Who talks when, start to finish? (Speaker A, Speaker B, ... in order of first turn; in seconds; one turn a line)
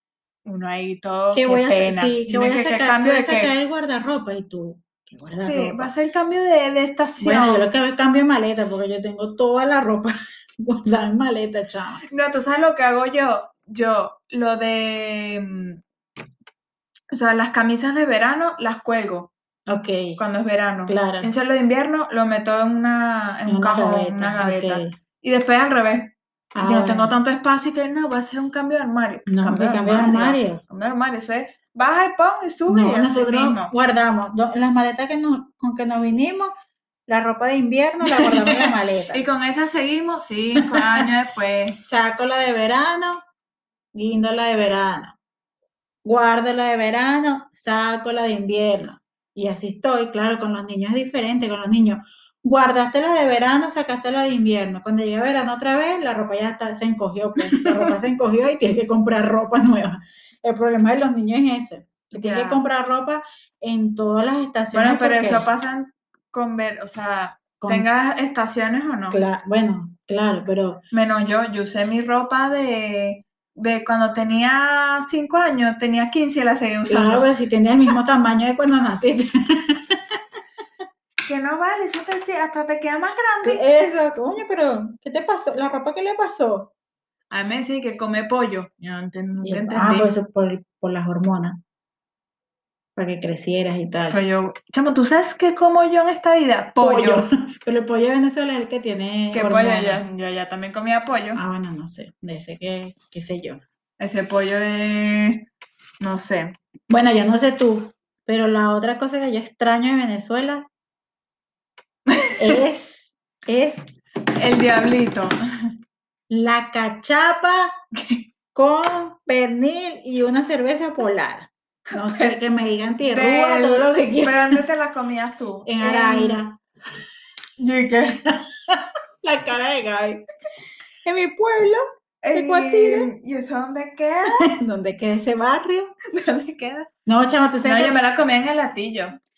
Speaker A: 0.4-3.5
Speaker B: 1.3-5.9
Speaker A: 5.4-7.7
Speaker B: 7.2-12.0
Speaker A: 12.1-15.8
Speaker A: 17.1-19.3
Speaker B: 19.7-20.2
Speaker A: 20.2-33.7
Speaker B: 20.9-21.3
Speaker B: 23.5-24.9
Speaker B: 26.5-27.1
Speaker B: 29.3-30.6
Speaker B: 32.7-36.5
Speaker B: 37.1-39.3
Speaker A: 38.0-41.8
Speaker B: 40.6-41.1
Speaker B: 41.8-43.2
Speaker B: 43.9-45.1
Speaker B: 46.0-65.5
Speaker A: 57.5-57.9
Speaker A: 62.1-62.6
Speaker A: 64.7-69.2
Speaker B: 67.6-67.9
Speaker B: 69.1-70.8
Speaker A: 70.9-77.3
Speaker B: 76.9-80.2
Speaker A: 81.2-83.6
Speaker B: 83.4-86.7
Speaker A: 87.3-90.1
Speaker B: 89.4-91.6
Speaker B: 93.0-94.2
Speaker A: 94.1-97.3
Speaker B: 96.8-100.0
Speaker A: 99.3-101.4
Speaker B: 101.3-103.6
Speaker A: 104.0-105.5
Speaker A: 106.0-106.5
Speaker B: 106.9-110.7
Speaker A: 112.1-112.6
Speaker B: 112.4-113.8
Speaker A: 114.3-115.3
Speaker B: 116.3-117.7
Speaker A: 117.9-118.2
Speaker B: 118.5-124.6
Speaker A: 122.0-122.4
Speaker A: 123.0-126.4
Speaker B: 125.7-126.6
Speaker A: 127.6-128.2
Speaker B: 128.4-130.2
Speaker B: 131.0-133.1
Speaker A: 132.2-134.5
Speaker B: 134.4-135.9
Speaker A: 136.1-136.9
Speaker B: 137.1-138.0
Speaker A: 137.6-139.2